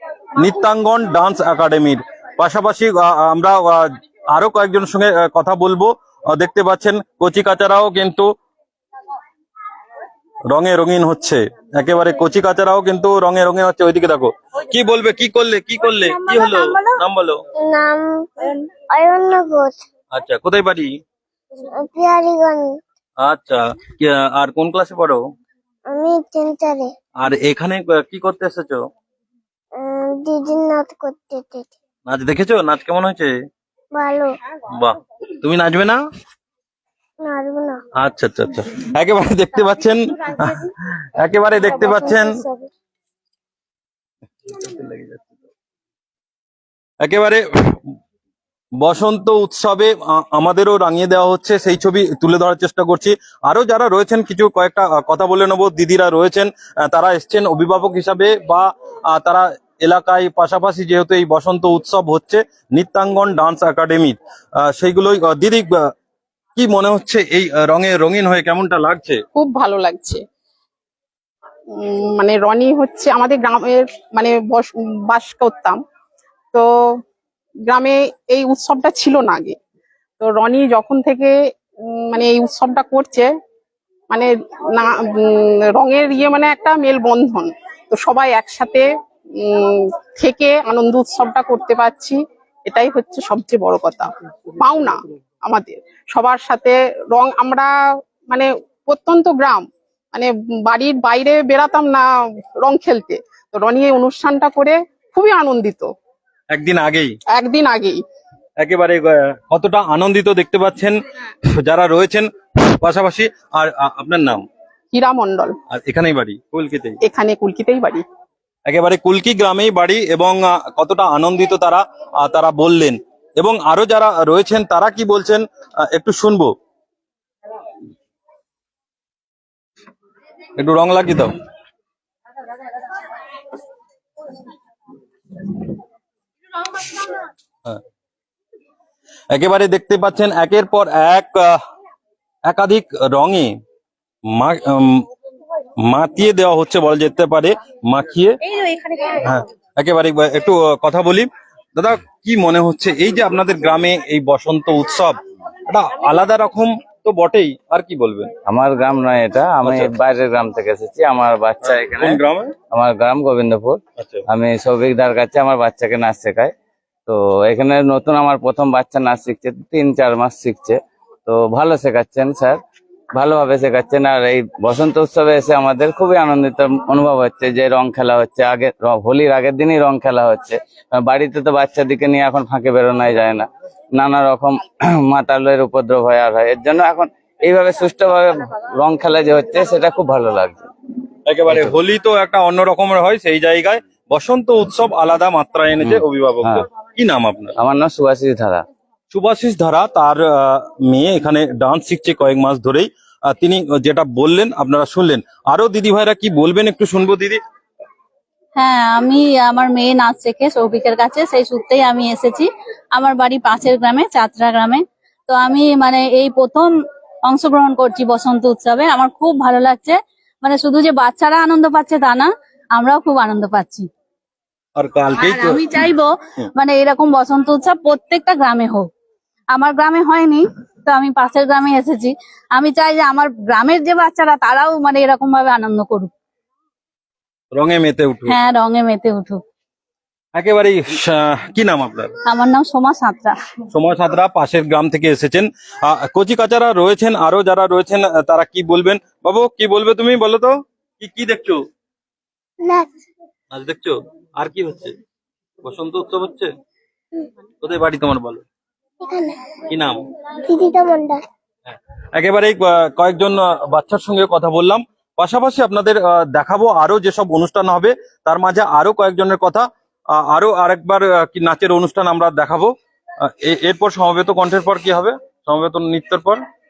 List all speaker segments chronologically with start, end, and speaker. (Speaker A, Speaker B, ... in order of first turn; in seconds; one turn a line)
Speaker A: 0.4-8.3
Speaker A: 10.5-17.4
Speaker B: 16.2-16.8
Speaker B: 17.6-19.8
Speaker A: 20.1-20.9
Speaker B: 21.6-22.8
Speaker A: 23.2-25.2
Speaker B: 25.9-26.9
Speaker A: 27.2-28.9
Speaker B: 29.8-31.8
Speaker A: 32.1-33.3
Speaker B: 34.0-34.3
Speaker A: 34.7-36.0
Speaker B: 37.2-37.8
Speaker A: 38.0-42.4
Speaker B: 41.7-42.7
Speaker A: 44.5-45.4
Speaker A: 47.0-47.8
Speaker A: 48.8-65.9
Speaker A: 66.6-69.2
Speaker C: 69.4-70.2
Speaker C: 71.7-75.8
Speaker C: 77.7-79.6
Speaker C: 80.2-81.3
Speaker C: 81.9-83.3
Speaker C: 84.1-88.9
Speaker C: 89.4-97.7
Speaker C: 98.3-102.1
Speaker C: 102.6-105.9
Speaker A: 106.5-107.1
Speaker C: 107.4-108.0
Speaker A: 108.6-114.5
Speaker C: 114.9-115.5
Speaker A: 115.7-117.0
Speaker C: 117.1-118.0
Speaker A: 118.7-126.5
Speaker A: 130.6-131.3
Speaker A: 139.3-141.6
Speaker A: 142.5-143.6
Speaker A: 144.3-145.0
Speaker A: 145.8-148.4
Speaker A: 149.1-158.3
Speaker D: 158.4-162.2
Speaker A: 159.6-159.9
Speaker A: 161.7-162.5
Speaker D: 162.7-166.5
Speaker D: 167.1-172.6
Speaker D: 173.1-190.7
Speaker A: 191.3-197.5
Speaker D: 191.5-191.8
Speaker D: 195.8-196.7
Speaker D: 197.6-198.6
Speaker A: 199.1-207.4
Speaker E: 208.6-216.7
Speaker E: 217.2-223.9
Speaker A: 224.8-225.7
Speaker E: 225.1-228.9
Speaker E: 229.5-236.1
Speaker A: 237.5-238.3
Speaker E: 238.3-239.4
Speaker A: 240.4-242.1
Speaker E: 242.3-243.4
Speaker A: 243.7-251.6
Speaker B: 252.6-252.9
Speaker A: 253.5-255.0
Speaker A: 255.6-256.5
Speaker A: 257.6-258.4
Speaker B: 259.0-259.6
Speaker A: 259.7-260.0
Speaker B: 260.4-261.2
Speaker A: 262.2-276.4